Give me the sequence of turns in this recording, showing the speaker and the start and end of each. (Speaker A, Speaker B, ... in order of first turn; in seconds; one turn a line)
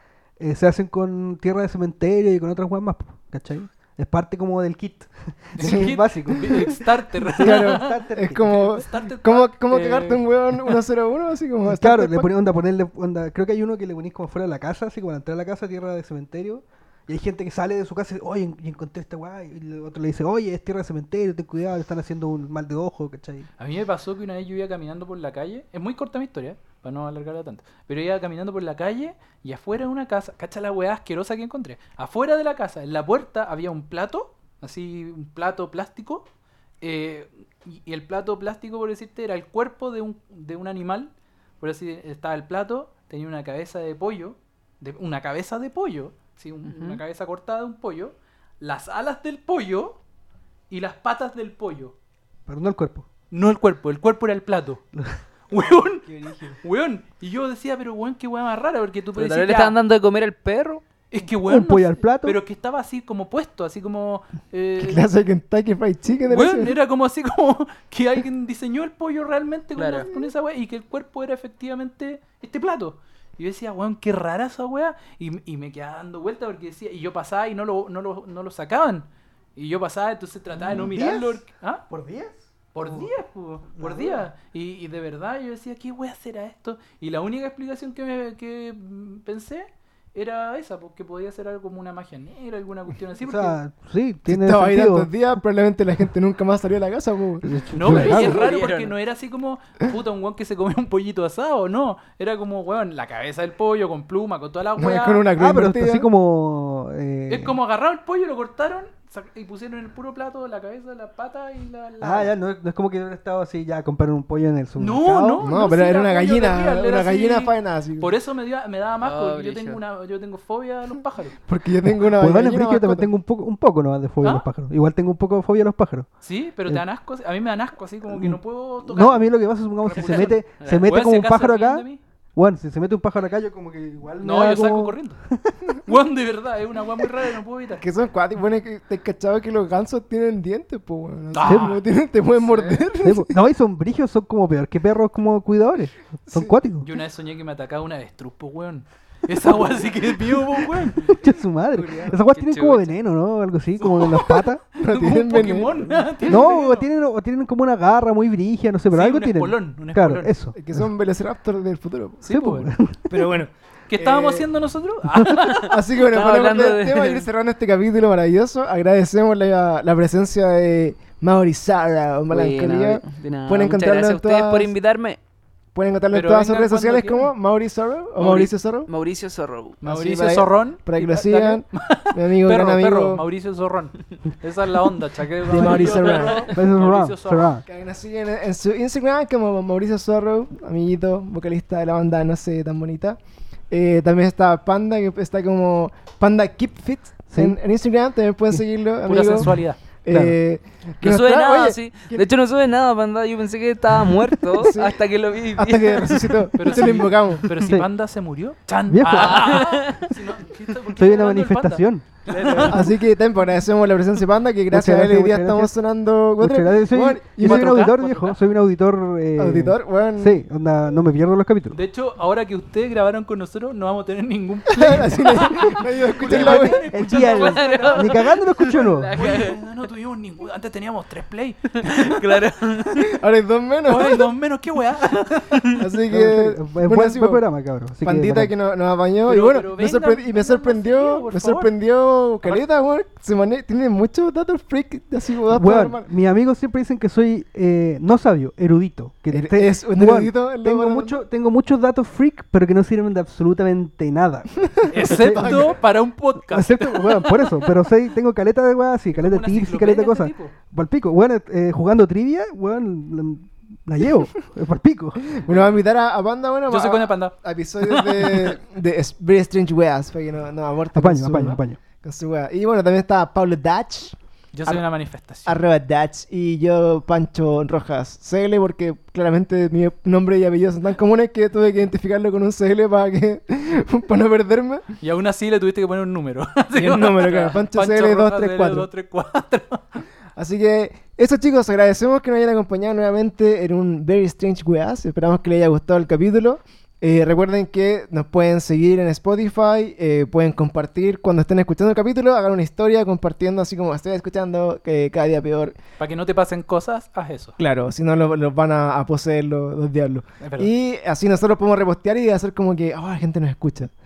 Speaker A: 0.4-8.8
Speaker B: 5.6-10.8
Speaker C: 5.6-5.9
Speaker C: 7.4-12.3
Speaker A: 11.7-23.5
Speaker B: 23.6-36.3
Speaker B: 36.8-50.0
Speaker D: 46.6-47.0
Speaker B: 50.7-51.9
Speaker A: 52.5-53.1
Speaker B: 53.3-54.8
Speaker B: 55.5-59.8
Speaker C: 55.5-56.6
Speaker D: 59.1-60.8
Speaker B: 61.1-65.1
Speaker A: 61.5-62.4
Speaker C: 64.8-66.7
Speaker B: 66.3-81.8
Speaker D: 69.8-70.1
Speaker A: 80.5-83.1
Speaker B: 82.7-93.6
Speaker A: 83.8-84.2
Speaker A: 93.2-95.1
Speaker C: 94.3-98.1
Speaker A: 97.4-98.4
Speaker B: 97.7-105.3
Speaker D: 97.9-98.9
Speaker C: 104.8-106.1
Speaker A: 105.4-107.6
Speaker B: 107.3-112.3
Speaker A: 112.0-115.5
Speaker B: 114.8-121.4
Speaker C: 115.4-118.1
Speaker D: 119.0-119.8
Speaker C: 121.5-123.1
Speaker A: 121.9-126.1
Speaker B: 126.2-132.0
Speaker A: 128.1-135.8
Speaker D: 130.6-130.9
Speaker B: 134.2-137.8
Speaker C: 137.8-143.3
Speaker B: 141.3-141.8
Speaker A: 141.4-141.8
Speaker B: 142.4-142.8
Speaker A: 143.0-146.9
Speaker C: 146.3-146.6
Speaker B: 146.8-151.2
Speaker A: 151.0-154.6
Speaker C: 151.7-152.2
Speaker D: 152.3-152.9
Speaker B: 153.8-156.9
Speaker C: 154.8-156.3
Speaker A: 156.3-160.9
Speaker B: 158.9-160.3
Speaker C: 160.6-162.2
Speaker B: 162.2-162.7
Speaker A: 162.3-163.2
Speaker C: 163.1-164.5
Speaker B: 163.9-165.8
Speaker C: 165.6-174.7
Speaker D: 166.0-167.3
Speaker D: 172.3-175.2
Speaker C: 175.8-178.9
Speaker B: 176.1-177.3
Speaker D: 178.2-179.8
Speaker B: 179.8-187.6
Speaker C: 179.8-183.2
Speaker A: 185.5-187.7
Speaker C: 185.5-186.5
Speaker D: 186.1-186.4
Speaker C: 187.7-202.2
Speaker A: 197.3-197.6
Speaker B: 199.0-199.8
Speaker A: 200.1-200.4
Speaker D: 201.0-206.8
Speaker C: 204.6-205.0
Speaker C: 205.5-207.5
Speaker B: 206.6-213.0
Speaker A: 207.6-207.9
Speaker A: 208.9-209.8
Speaker D: 209.1-210.1
Speaker A: 211.0-212.8
Speaker C: 212.6-217.9
Speaker A: 214.7-215.8
Speaker A: 216.4-221.8
Speaker B: 217.4-218.4
Speaker C: 219.4-220.4
Speaker B: 221.7-228.6
Speaker C: 224.7-226.9
Speaker A: 226.3-229.2
Speaker D: 227.4-229.6
Speaker B: 229.1-233.2
Speaker D: 231.8-232.9
Speaker C: 233.1-234.3
Speaker B: 233.9-235.8
Speaker C: 235.8-237.4
Speaker A: 236.1-238.5
Speaker C: 238.0-246.1
Speaker B: 239.3-241.7
Speaker A: 245.5-255.8
Speaker C: 249.3-251.2
Speaker C: 254.8-255.8
Speaker B: 254.9-257.5
Speaker A: 256.5-265.3
Speaker B: 259.2-260.5
Speaker C: 265.3-274.8
Speaker B: 265.5-265.8
Speaker B: 266.7-268.6
Speaker A: 270.9-271.8
Speaker B: 274.5-275.6
Speaker C: 275.4-284.8
Speaker B: 285.0-290.0
Speaker C: 286.8-288.9
Speaker C: 290.4-305.8
Speaker B: 306.0-307.6
Speaker C: 307.6-313.9
Speaker B: 310.4-310.7